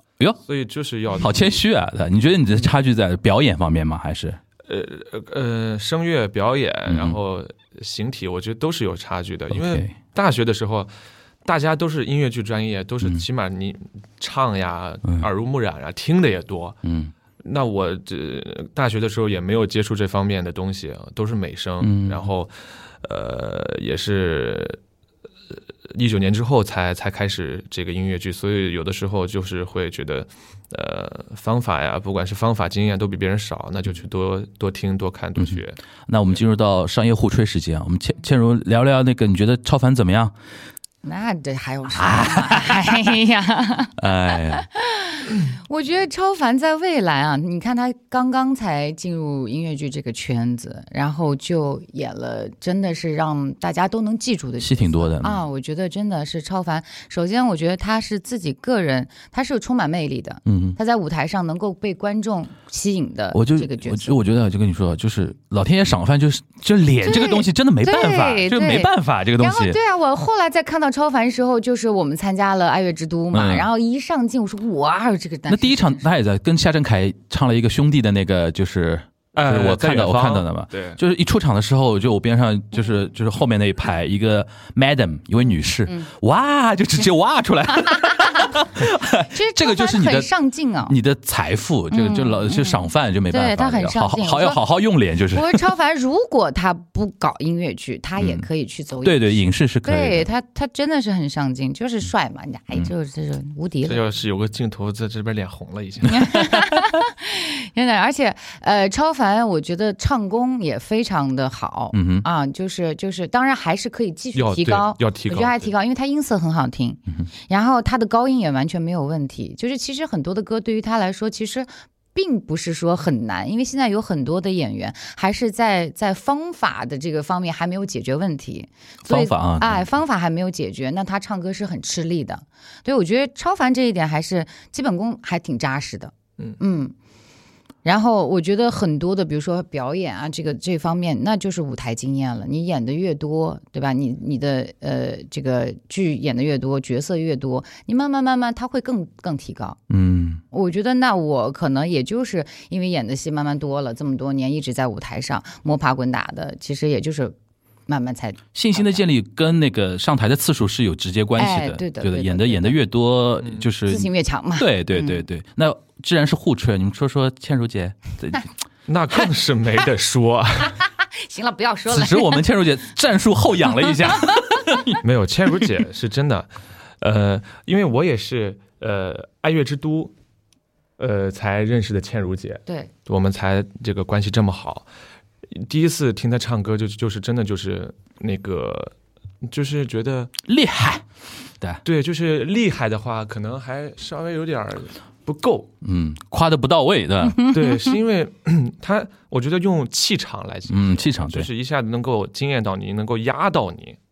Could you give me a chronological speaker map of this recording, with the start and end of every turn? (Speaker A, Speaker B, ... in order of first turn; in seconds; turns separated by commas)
Speaker A: 0.5-1.6, Speaker B: 1.2-4.4, Speaker A: 4.7-10.9, Speaker B: 6.9-7.2, Speaker B: 9.5-9.9, Speaker A: 11.4-16.8, Speaker B: 16.8-17.1, Speaker A: 17.4-24.8, Speaker B: 21.8-22.3, Speaker A: 25.9-35.8, Speaker B: 35.4-40.3, Speaker C: 41.0-64.2, Speaker B: 41.9-43.1, Speaker B: 44.0-44.7, Speaker B: 54.6-55.4, Speaker B: 60.5-60.8, Speaker B: 63.3-69.8, Speaker C: 67.0-76.0, Speaker B: 73.3-73.7, Speaker B: 75.5-90.3, Speaker A: 79.3-81.0, Speaker C: 87.8-88.6, Speaker C: 89.2-91.0, Speaker B: 90.9-95.7, Speaker C: 91.9-94.6, Speaker C: 95.3-104.0, Speaker B: 98.2-98.5, Speaker B: 99.0-100.3, Speaker A: 103.8-106.5, Speaker C: 106.1-136.9, Speaker B: 111.9-112.3, Speaker A: 114.3-115.7, Speaker B: 129.1-129.9, Speaker C: 137.8-149.8, Speaker B: 149.9-150.4, Speaker C: 150.5-157.3, Speaker C: 157.9-159.0, Speaker B: 158.6-168.5, Speaker C: 161.4-162.8, Speaker A: 163.4-163.7, Speaker C: 163.8-165.3, Speaker A: 168.9-170.8, Speaker C: 171.0-172.4, Speaker B: 171.9-175.0, Speaker C: 173.9-174.4, Speaker A: 175.0-176.5, Speaker A: 177.0-180.1, Speaker A: 181.0-184.9, Speaker A: 185.5-190.3, Speaker B: 190.4-191.1, Speaker A: 191.8-195.7, Speaker B: 195.8-197.5, Speaker A: 197.5-204.0, Speaker B: 200.7-201.5